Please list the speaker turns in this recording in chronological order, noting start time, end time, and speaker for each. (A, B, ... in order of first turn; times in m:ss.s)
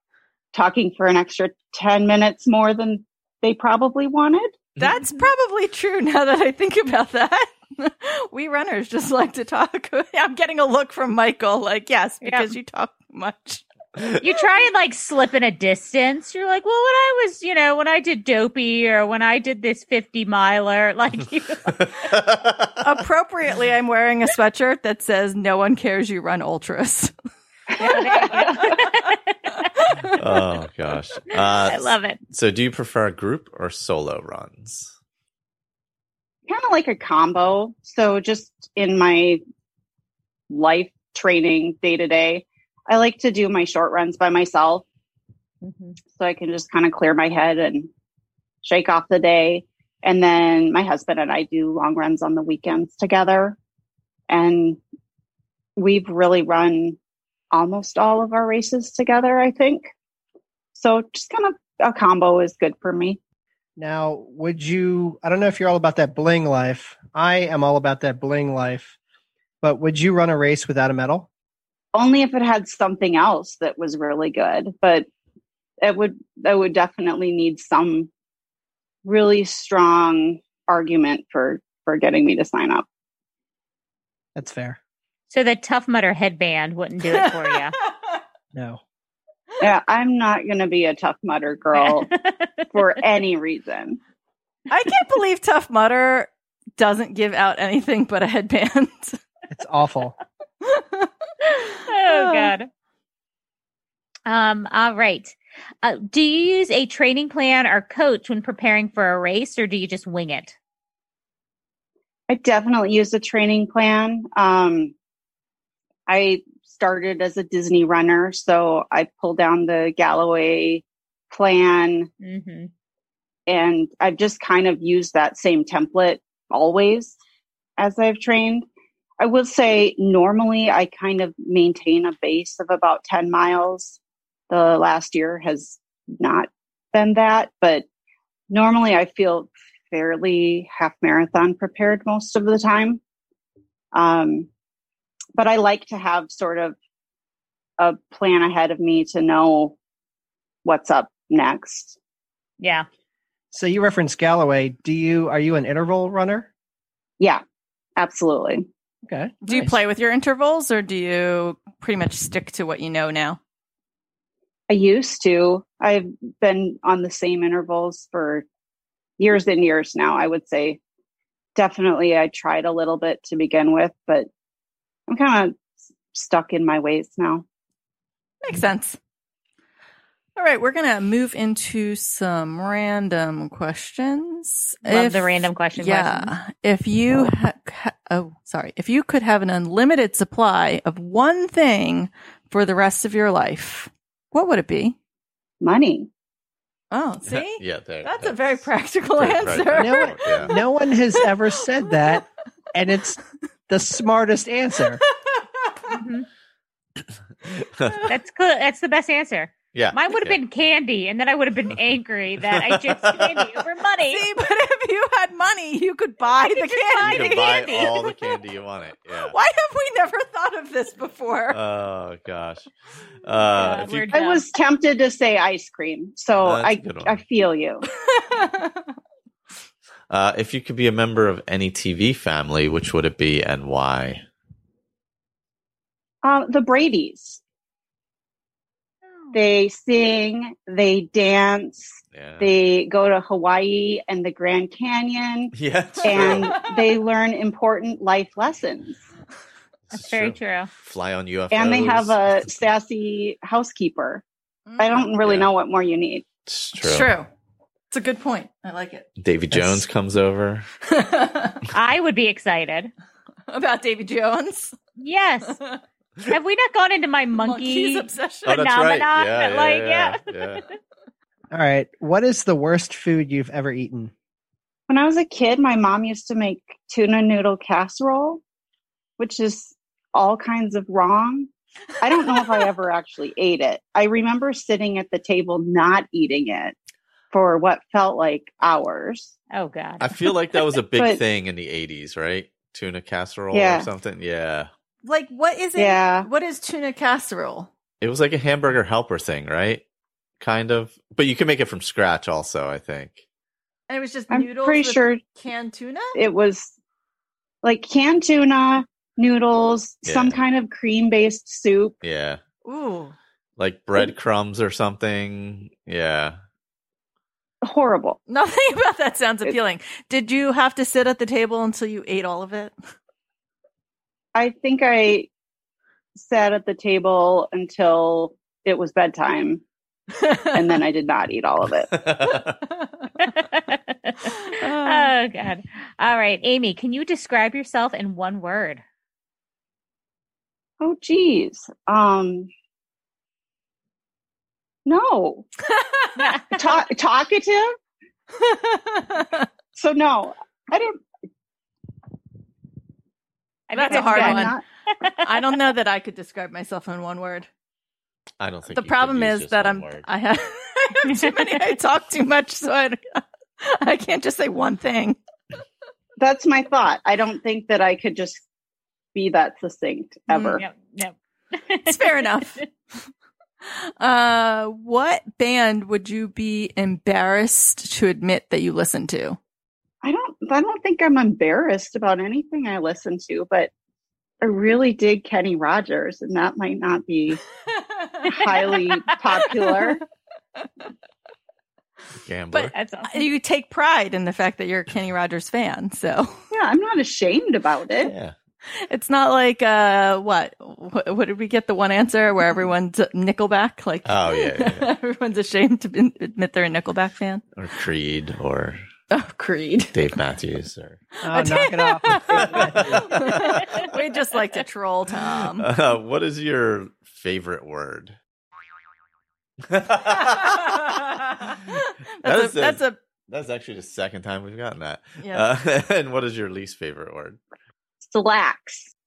0:00.5-0:04.6 A
0:04.8-0:13.6 B
0:12.2-0:12.5 C
0:14.2-0:21.8 C
0:21.8-0:22.7 D
0:22.8-0:27.1 B
0:27.8-0:28.4 A
0:27.8-0:30.1 C
0:30.2-0:34.9 D
0:31.6-0:32.2 C
0:36.5-0:39.4 A
0:40.5-0:44.8 A
0:45.6-0:46.0 C
0:46.1-0:47.9 A
0:48.6-0:53.6 A
0:54.3-0:54.8 A
0:55.8-0:57.0 A
0:57.5-0:59.9 A
1:00.7-1:03.2 A
1:03.8-1:09.0 E
1:09.6-1:11.3 E
1:11.9-1:15.1 A
1:15.8-1:18.1 A
1:19.0-1:22.8 A
1:24.3-1:24.8 E
1:25.3-1:27.7 C
1:27.1-1:27.9 B
1:28.5-1:28.8 E
1:29.6-1:32.1 A
1:31.8-1:32.7 C
1:32.7-1:34.0 A
1:34.7-1:39.2 B
1:39.5-1:40.2 E
1:40.6-1:41.1 B
1:41.5-1:42.7 C
1:42.1-1:42.5 B
1:44.3-1:50.6 C
1:52.3-1:54.9 A
1:56.1-2:02.1 A
2:02.2-2:02.7 C
2:03.5-2:07.2 A
2:07.8-2:08.6 A
2:09.2-2:14.0 A
2:14.5-2:17.8 A
2:18.5-2:23.0 A
2:23.9-2:24.5 A
2:25.4-2:26.7 A
2:27.8-2:29.8 A
2:30.6-2:32.0 A
2:32.6-2:32.8 C
2:33.5-2:36.5 E
2:38.0-2:38.6 A
2:39.1-2:39.8 E
2:39.4-2:43.4 B
2:44.7-2:48.4 A
2:49.2-2:50.8 A
2:51.6-2:54.3 A
2:55.1-2:57.4 A
2:58.4-2:59.0 B
3:00.4-3:15.0 B
3:04.8-3:06.3 C
3:15.6-3:16.1 A
3:16.9-3:22.2 B
3:17.2-3:20.5 D
3:19.8-3:23.2 E
3:23.7-3:25.0 E
3:25.0-3:26.0 B
3:25.9-3:26.3 C
3:27.6-3:27.9 D
3:28.1-3:34.2 C
3:29.7-3:30.4 D
3:32.4-3:33.5 D
3:34.1-3:37.9 B
3:36.4-3:38.2 C
3:37.0-3:39.4 D
3:39.1-3:41.6 B
3:41.5-3:42.7 D
3:43.2-3:44.1 D
3:43.5-3:44.4 C
3:44.1-3:47.8 A
3:46.3-3:47.2 D
3:47.8-3:48.9 B
3:50.1-3:54.2 D
3:56.2-3:57.4 A
3:59.3-4:09.0 A
4:02.1-4:02.5 D
4:05.5-4:06.5 D
4:06.3-4:06.9 B
4:09.9-4:10.7 C
4:09.9-4:12.3 D
4:11.5-4:14.2 A
4:14.7-4:15.1 B
4:14.8-4:16.2 A
4:15.2-4:15.5 D
4:16.5-4:17.1 D
4:16.8-4:17.3 B
4:17.9-4:19.0 B
4:19.2-4:20.7 D
4:19.5-4:19.8 E
4:20.9-4:21.6 B
4:21.7-4:22.9 C
4:23.5-4:24.8 B
4:25.0-4:25.6 C
4:25.4-4:25.8 B
4:26.3-4:30.6 C
4:27.3-4:28.5 B
4:28.4-4:30.6 D
4:31.5-4:34.1 E
4:34.9-4:38.4 A
4:39.2-4:46.7 A
4:42.2-4:42.7 B
4:47.3-4:49.3 A
4:49.5-4:50.1 C
4:50.0-4:54.7 D
4:51.0-4:51.2 A
4:53.5-4:53.9 A
4:55.0-4:57.7 B
4:55.8-4:56.3 A
4:58.0-4:59.8 D
5:00.4-5:03.2 D
5:03.9-5:06.2 B
5:04.3-5:05.2 A
5:06.1-5:06.7 A
5:07.6-5:12.0 A
5:10.0-5:10.4 D
5:12.0-5:12.4 D
5:12.6-5:13.2 B
5:13.6-5:16.4 D
5:17.6-5:18.2 A
5:18.3-5:22.8 B
5:24.3-5:25.3 A
5:26.2-5:29.6 A
5:30.2-5:30.7 B
5:30.5-5:31.9 A
5:31.9-5:32.5 D
5:33.2-5:38.8 C
5:34.6-5:35.1 B
5:40.8-5:42.5 A
5:44.8-5:45.5 A
5:45.7-5:46.3 B
5:46.2-5:46.6 C
5:46.5-5:47.7 A
5:48.4-5:49.5 B
5:49.7-5:51.0 A
5:53.7-5:55.5 C
5:53.7-5:54.6 B
5:53.9-5:54.6 A
5:55.2-5:57.5 B
5:58.4-6:00.0 D
5:58.7-6:05.2 B
6:06.2-6:08.4 A
6:09.1-6:10.6 A
6:10.3-6:10.6 B
6:10.5-6:12.6 C
6:11.9-6:12.6 B
6:13.6-6:19.4 B
6:20.0-6:23.7 A
6:24.4-6:27.4 A
6:27.6-6:30.0 B
6:28.3-6:30.0 A
6:28.5-6:28.9 C
6:32.2-6:32.7 D
6:32.5-6:36.4 B
6:32.7-6:33.3 C
6:36.5-6:38.1 A
6:38.0-6:38.3 D
6:38.8-6:47.4 B
6:44.0-6:44.9 D
6:47.6-6:48.8 D
6:49.1-6:50.0 B
6:49.9-6:51.0 D
6:51.2-6:53.2 E
6:51.2-6:55.7 B
6:52.5-6:53.8 D
6:55.3-6:58.2 D
6:59.7-7:00.9 D
7:01.8-7:03.0 B
7:02.2-7:07.4 D
7:05.2-7:05.4 B
7:08.0-7:08.9 A